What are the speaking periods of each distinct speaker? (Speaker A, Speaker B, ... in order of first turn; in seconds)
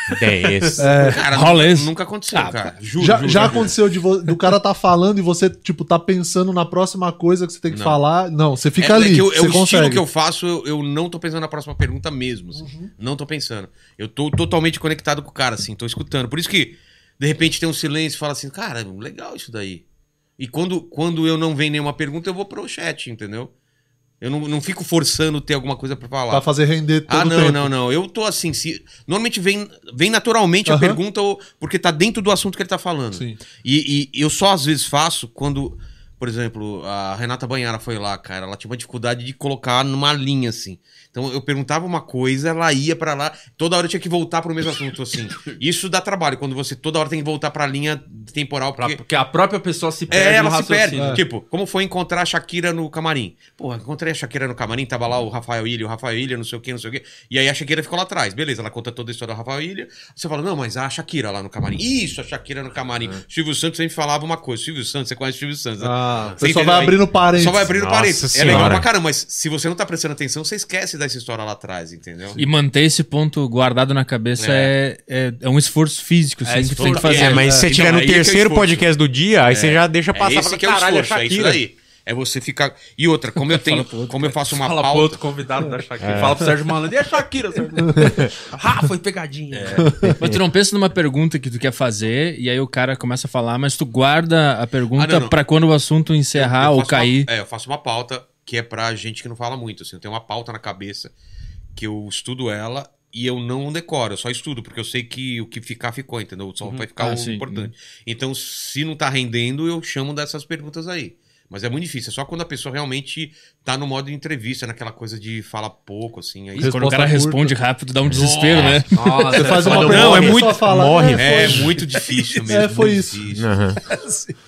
Speaker A: 0.1-1.0, 67.7-68.9, 77.2-81.6, 86.0-86.5, 118.1-118.8, 119.7-121.7, 123.3-123.8
Speaker B: 0.8-1.2, 3.0-10.0, 12.6-12.9, 26.3-27.7, 30.7-31.0, 33.1-33.4, 50.9-51.2, 65.8-67.7, 89.8-90.2, 116.6-117.5, 119.3-121.9, 122.4-123.3
Speaker C: 1.0-3.8, 7.7-8.0, 8.8-19.8, 20.4-23.5, 24.2-26.5, 27.1-49.0, 50.1-72.4, 74.4-74.7, 76.8-78.9, 79.5-85.2, 89.5-89.9, 94.9-95.4, 96.3-101.1, 101.8-116.8, 118.1-118.8, 119.8-123.5
Speaker D: 1.2-2.7, 72.4-77.4, 83.4-84.4, 90.2-97.3, 107.0-107.7, 116.6-119.4
Speaker E: 48.8-51.2, 76.5-77.4, 84.6-90.0, 118.9-120.3